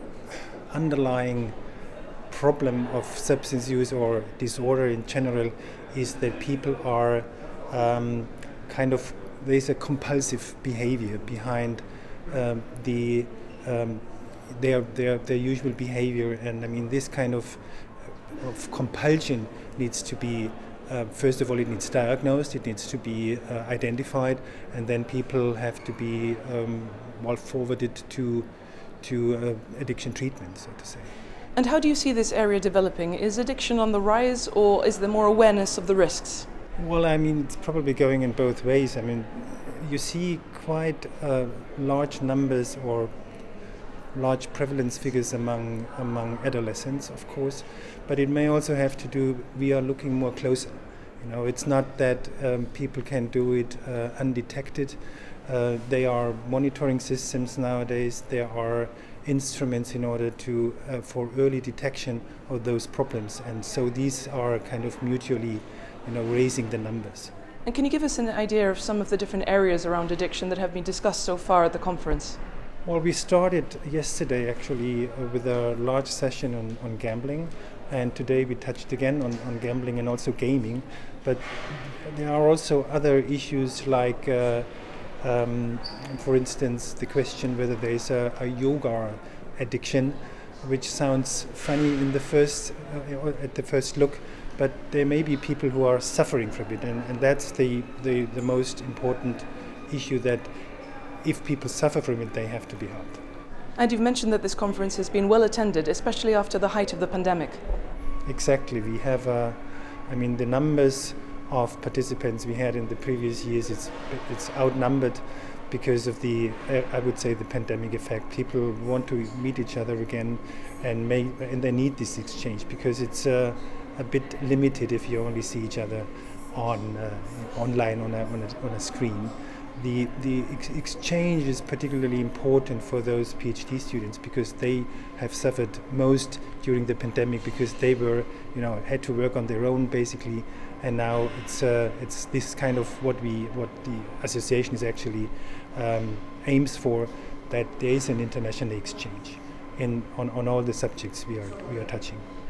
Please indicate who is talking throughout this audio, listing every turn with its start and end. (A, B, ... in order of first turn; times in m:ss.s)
0:00.3-0:01.6 A
0:02.3-0:31.1 A
0:31.5-0:36.5 B
0:36.8-1:07.3 A
1:07.6-1:12.4 B
1:12.8-1:43.2 A
1:43.8-1:47.6 B
1:48.2-2:32.2 A